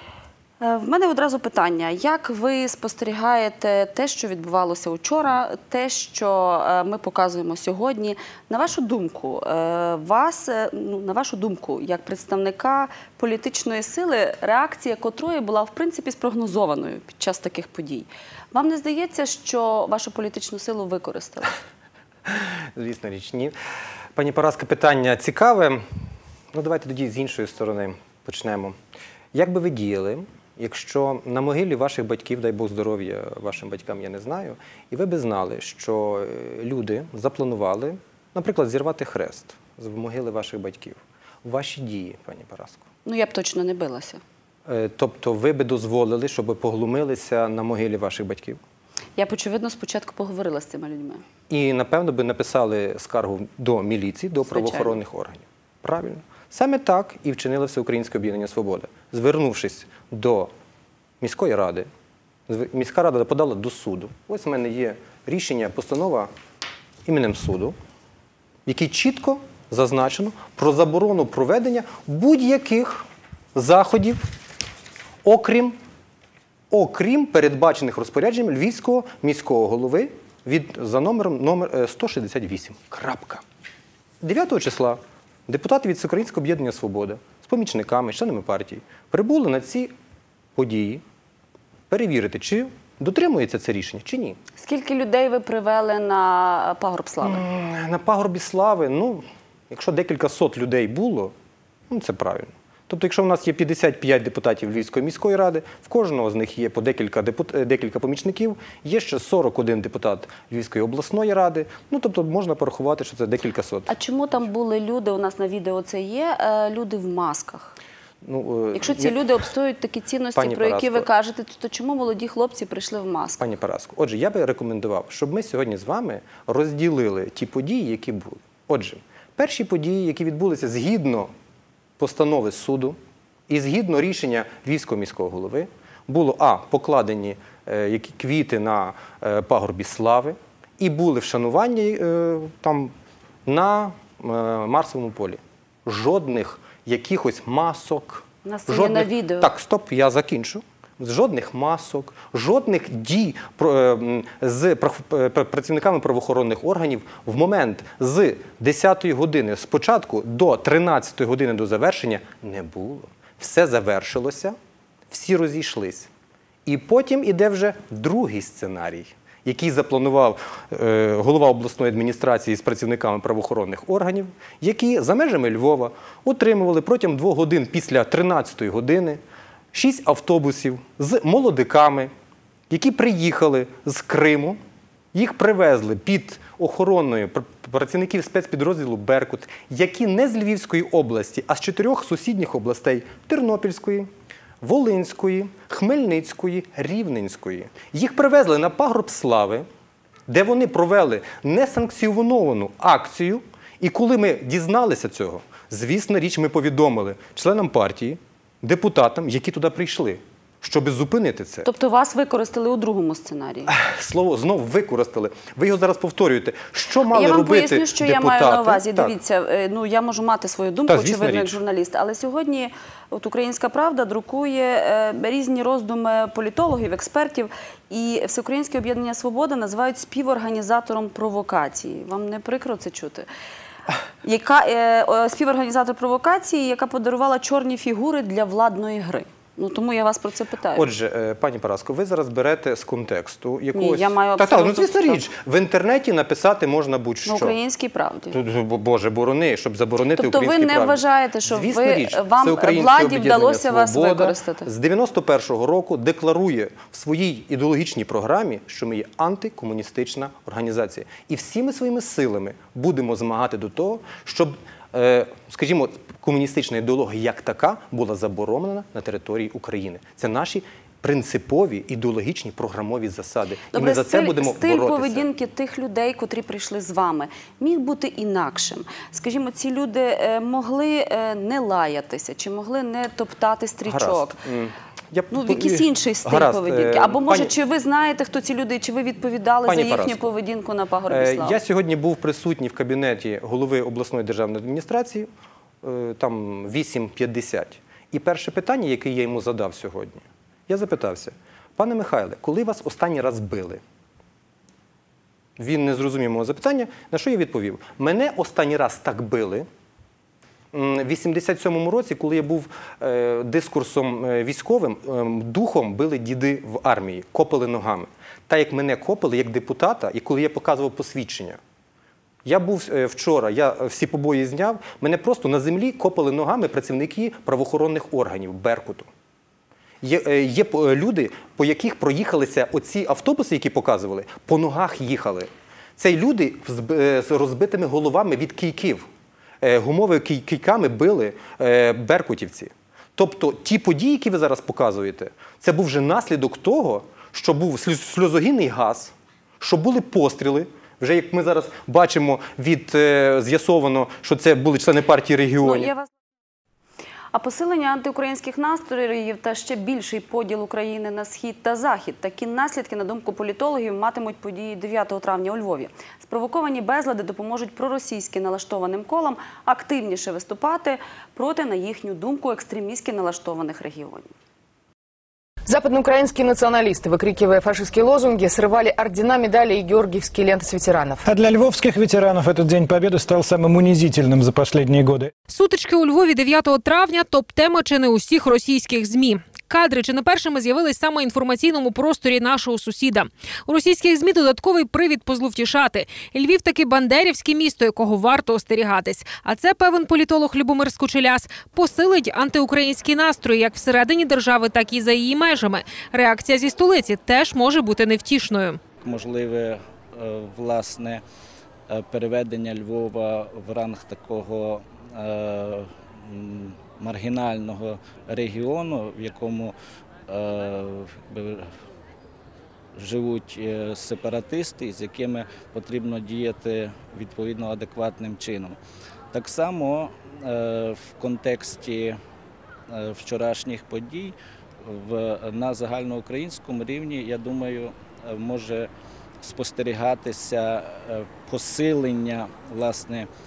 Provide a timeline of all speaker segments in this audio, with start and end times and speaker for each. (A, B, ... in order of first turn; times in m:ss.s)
0:00.6-0:21.5 A
0:22.3-0:23.5 B
0:24.2-0:25.8 B
0:26.5-0:28.7 B
0:29.3-0:42.8 B
0:43.0-0:44.2 A
0:44.7-0:48.6 B
0:49.2-0:51.2 A
0:51.5-1:00.5 B
0:54.5-0:55.0 A
1:01.2-1:01.9 B
1:02.5-1:06.3 B
1:07.0-1:07.7 B
1:08.6-1:14.2 B
1:15.2-1:15.8 B
1:16.7-1:23.4 B
1:24.2-1:29.9 B
1:30.6-1:31.0 B
1:31.9-1:34.4 B
1:34.6-1:37.4 A
1:37.2-1:41.3 B
1:41.9-1:53.9 B
1:53.9-1:57.8 A
1:58.2-1:59.2 B
1:58.7-2:03.4 A
2:00.3-2:01.1 B
2:03.4-2:11.3 B
2:12.0-2:13.0 B
2:13.5-2:22.9 B
2:23.4-2:44.6 B
2:28.4-2:29.5 A
2:45.1-2:46.1 B
2:46.6-2:59.2 B
2:59.7-3:02.1 B
3:02.7-3:04.6 B
3:05.1-3:14.1 B
3:14.6-3:19.6 B
3:20.3-3:31.7 B
3:31.6-3:33.7 A
3:33.7-3:39.1 B
3:37.1-3:53.3 A
3:40.9-3:41.6 B
3:54.2-4:00.9 A
4:00.8-4:07.6 B
4:03.7-4:05.2 A
4:07.2-4:08.4 A
4:08.3-4:35.3 B
4:10.2-4:14.7 A
4:33.7-4:44.4 A
4:43.8-4:47.5 B
4:45.3-4:51.6 A
4:49.7-4:50.2 B
4:51.1-4:55.3 B
4:55.8-5:03.8 B
5:05.6-5:09.7 B
5:10.7-5:21.6 B
5:22.4-5:29.1 B
5:30.0-5:39.1 B
5:39.6-5:55.9 B
5:55.6-5:56.1 A
5:57.3-6:14.3 A
6:15.6-6:21.3 C
6:21.2-6:25.3 D
6:25.5-6:48.8 E
6:49.0-6:51.2 F
6:51.9-6:59.7 F
7:00.3-7:01.6 F
7:03.0-7:08.7 F
7:09.3-7:12.1 F
7:12.9-7:14.3 F
7:14.8-7:18.9 F
7:19.4-7:23.3 F